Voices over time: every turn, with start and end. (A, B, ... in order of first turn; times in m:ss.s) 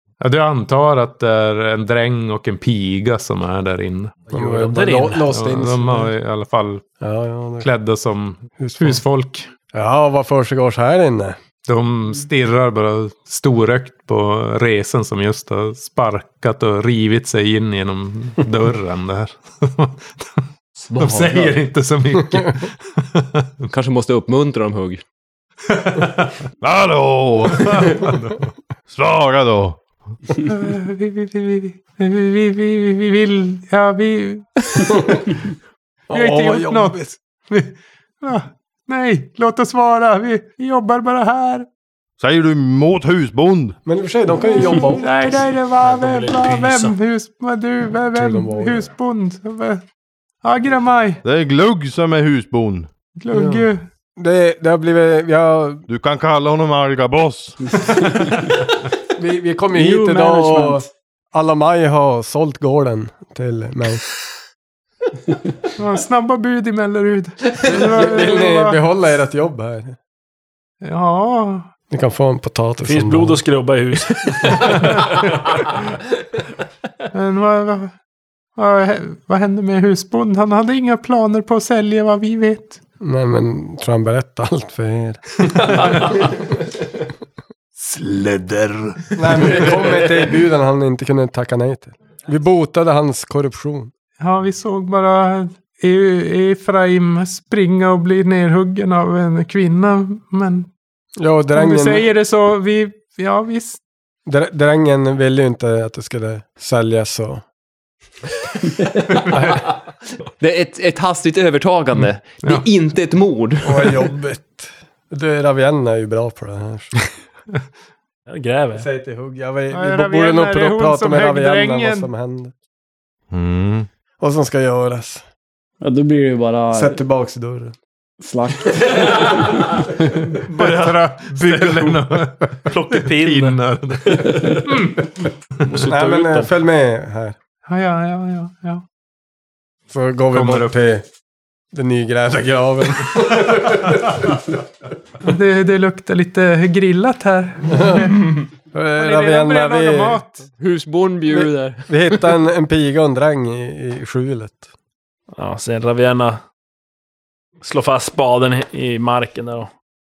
0:00.2-0:04.2 A
0:04.3-0:06.1 B
0:04.5-0:05.2 C
0:05.2-0:06.9 A
0:07.0-0:07.7 B
0:07.6-0:09.5 A
0:08.6-0:09.0 B
0:09.7-0:11.4 B
0:11.6-0:23.7 A
0:21.0-0:21.5 D
0:23.7-0:25.0 D
0:25.7-0:26.4 A
0:26.6-0:28.1 E
0:27.6-0:28.4 A
0:28.9-0:29.8 E
0:30.4-0:35.3 A
0:36.1-0:37.1 B
0:36.1-0:41.6 A
0:42.2-0:43.8 E
0:43.8-0:45.3 B
0:44.6-0:49.8 A
0:45.8-0:47.0 C
0:48.1-0:48.9 B
0:50.4-0:51.2 A
0:51.2-0:52.9 E
0:53.2-0:53.8 A
0:53.3-0:53.6 B
0:54.2-0:55.8 B
0:55.9-0:58.0 E
0:57.8-0:58.4 F
0:59.1-1:04.0 B
0:59.7-1:00.8 F
1:05.8-1:08.8 A
1:07.7-1:10.0 B
1:10.8-1:11.7 A
1:11.9-1:13.4 B
1:12.8-1:15.1 C
1:14.6-1:15.2 A
1:17.1-1:17.9 A
1:18.6-1:22.8 A
1:23.0-1:26.2 B
1:27.8-1:29.8 A
1:29.2-1:33.9 B
1:34.2-1:40.7 A
1:41.2-1:42.0 B
1:41.5-1:43.8 A
1:44.2-1:47.4 B
1:49.1-1:49.7 D
1:49.2-1:49.6 A
1:50.4-1:54.0 D
1:52.0-1:52.6 A
1:53.6-1:57.0 B
1:58.3-1:58.9 C
1:58.7-2:02.5 B
1:59.7-2:02.1 A
2:03.3-2:03.9 E
2:04.2-2:05.2 B
2:05.8-2:07.0 F
2:06.7-2:07.8 B
2:08.2-2:09.6 F
2:10.4-2:14.6 C
2:10.6-2:15.0 A
2:15.6-2:15.9 A
2:15.7-2:16.5 C
2:15.8-2:17.4 B
2:17.6-2:18.8 A
2:19.9-2:21.0 B
2:20.3-2:20.7 A
2:21.7-2:24.4 B
2:25.2-2:28.3 A
2:27.7-2:28.2 B
2:28.7-2:30.2 B
2:29.0-2:30.5 A
2:30.6-2:32.2 D
2:31.3-2:34.7 B
2:35.4-2:36.4 C
2:37.6-2:39.7 C